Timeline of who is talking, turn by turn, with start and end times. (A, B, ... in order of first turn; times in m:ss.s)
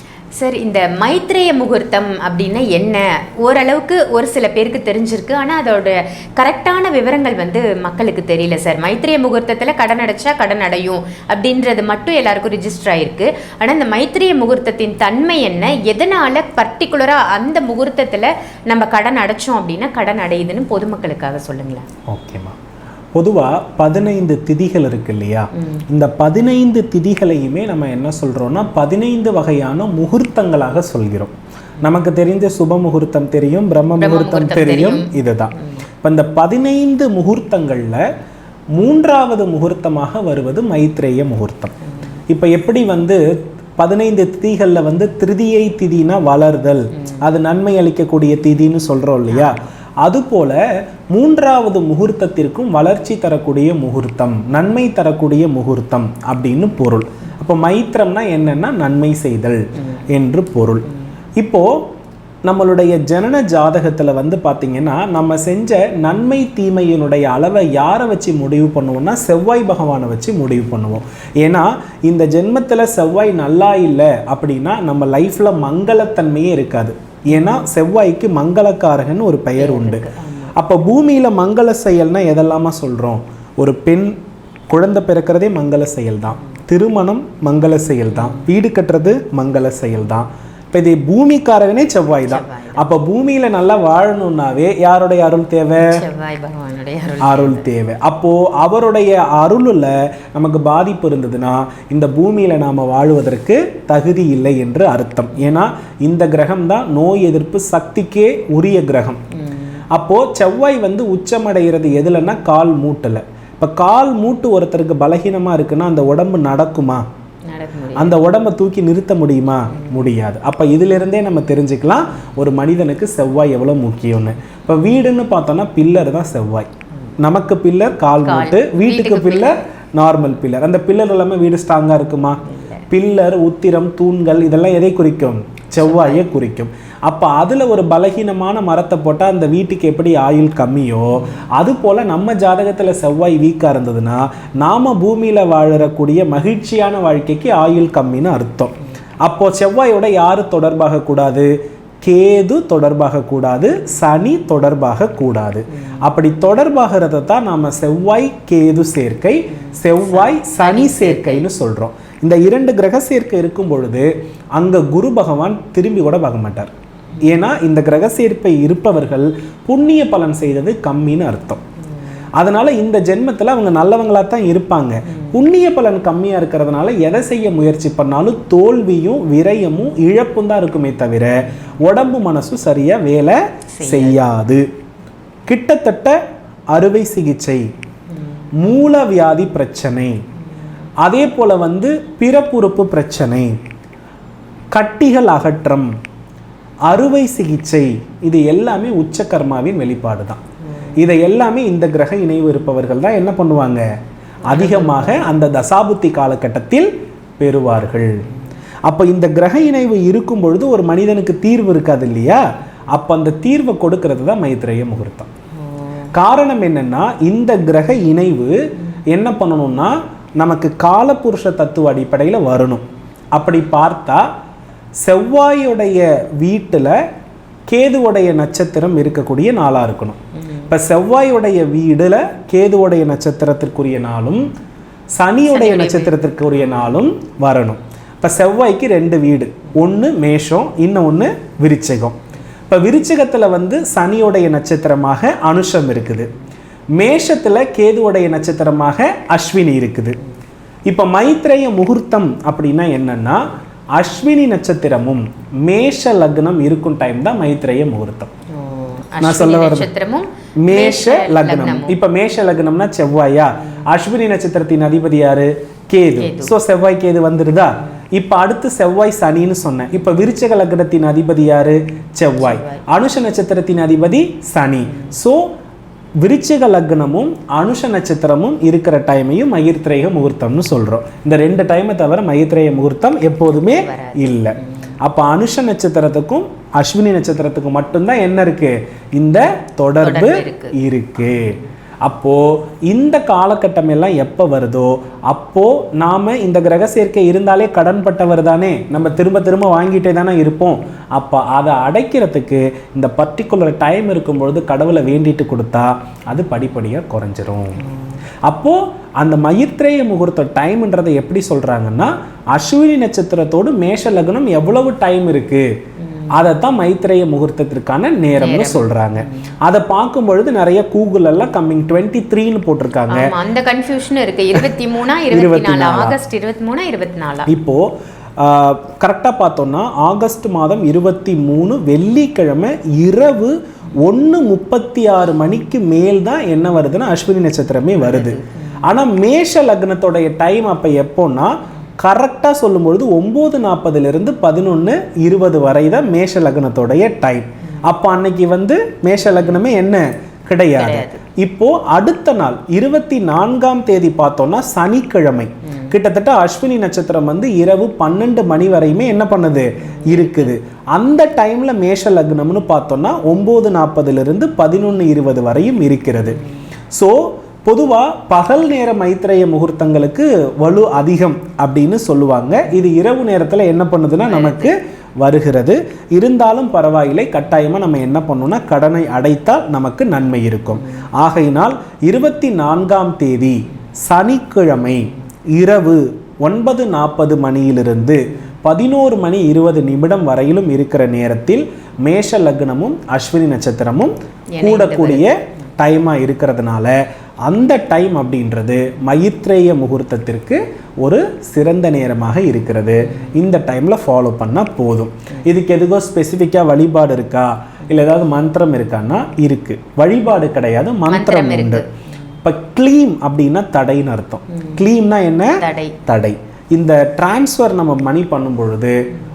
0:00.4-0:21.8 A
0:22.1-0:22.6 B
0:23.1-0:38.0 B
0:25.6-0:25.8 A
0:34.0-0:35.8 A
0:38.7-0:41.7 B
0:42.3-0:43.2 B
0:43.8-0:50.6 B
0:49.3-0:49.6 A
0:51.1-1:00.8 B
1:01.4-1:01.8 B
1:02.4-1:24.1 B
1:17.3-1:17.6 A
1:19.6-1:20.5 A
1:24.7-1:36.0 B
1:28.1-1:28.5 A
1:32.3-1:32.8 A
1:35.8-1:37.6 A
1:37.2-1:49.2 B
1:49.4-1:49.8 A
1:49.9-1:57.0 B
1:57.5-1:58.2 A
1:58.0-2:06.7 B
2:07.2-2:46.7 B
2:08.2-2:09.6 A
2:12.4-2:12.8 A
2:15.8-2:16.2 A
2:40.1-2:41.4 A
2:47.2-2:51.6 B
2:52.4-3:04.6 B
3:03.7-3:04.2 A
3:05.5-3:06.2 B
3:06.7-3:07.6 B
3:08.6-3:10.2 B
3:11.0-3:13.6 B
3:14.7-3:15.9 B
3:16.9-3:20.4 B
3:21.0-3:23.8 B
3:24.4-3:28.1 B
3:24.5-3:25.3 A
3:28.9-3:32.4 B
3:32.9-3:35.3 B
3:35.7-3:36.1 A
3:36.1-3:38.5 B
3:39.1-3:42.8 B
3:43.3-3:44.2 B
3:45.0-3:47.0 B
3:47.7-3:54.4 B
3:55.1-4:02.2 B
3:55.5-3:56.2 A
4:02.7-4:06.3 B
4:07.0-4:10.2 B
4:10.9-4:13.4 B
4:14.0-4:18.3 B
4:18.5-4:22.0 A
4:19.2-4:19.9 B
4:20.6-4:35.4 B
4:26.2-4:26.5 A
4:32.4-4:32.8 A
4:36.2-5:07.8 B
4:43.5-4:44.3 A
4:50.0-4:50.7 A
5:08.4-5:15.7 B
5:16.0-5:16.3 A
5:16.3-5:23.3 B
5:18.4-5:19.4 A
5:23.1-5:27.5 A
5:25.3-5:26.2 B
5:27.5-6:06.4 B
5:38.0-5:38.8 A
5:50.7-5:51.2 A
5:59.8-6:00.5 A
6:06.9-6:51.8 B
6:14.2-6:14.7 A
6:34.5-6:35.3 A
6:51.1-6:51.8 A
6:52.4-6:59.0 B
6:55.5-6:55.9 A